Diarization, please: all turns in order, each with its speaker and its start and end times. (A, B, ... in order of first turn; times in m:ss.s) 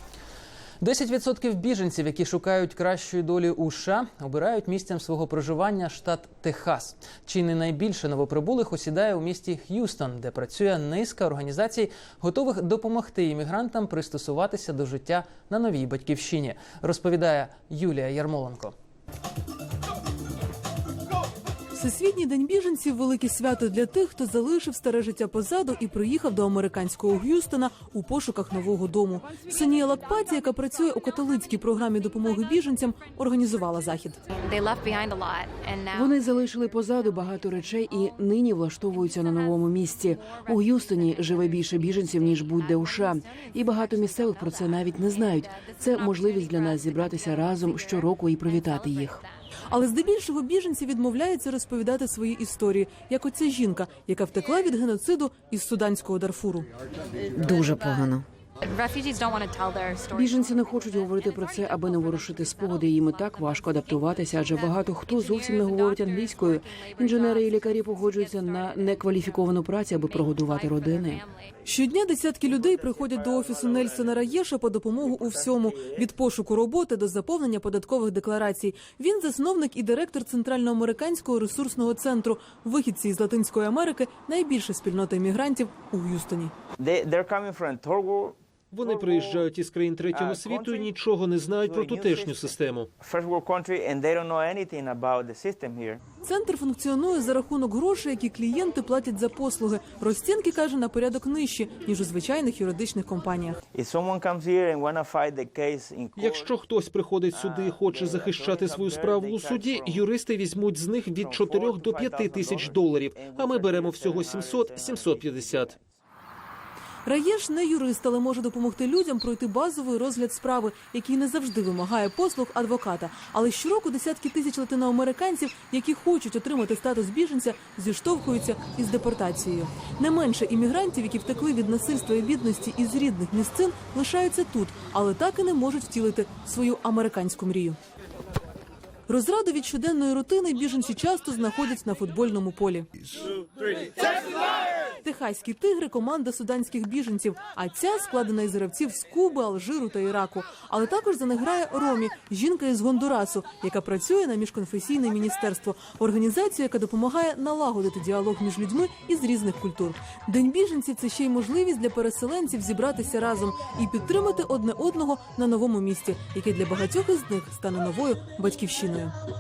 0:00.8-0:18.7 A
0:21.7-0:34.2 B
0:29.4-0:30.4 C
0:30.9-0:31.5 C
0:32.0-0:38.2 C
0:35.9-0:49.2 D
0:38.9-0:49.4 C
0:49.7-0:56.7 B
0:57.3-0:58.3 D
0:57.4-1:11.6 C
1:00.1-1:11.2 D
1:11.6-1:26.5 B
1:12.4-1:14.4 E
1:15.0-1:16.1 E
1:26.8-1:29.5 E
1:28.7-1:32.9 F
1:30.1-1:30.9 E
1:31.6-1:36.0 E
1:36.2-1:43.6 B
1:43.7-1:46.6 E
1:46.2-1:55.7 F
1:47.3-1:50.1 E
1:51.2-1:55.8 E
1:57.1-2:17.8 B
2:19.1-2:22.9 B
2:25.0-2:49.2 B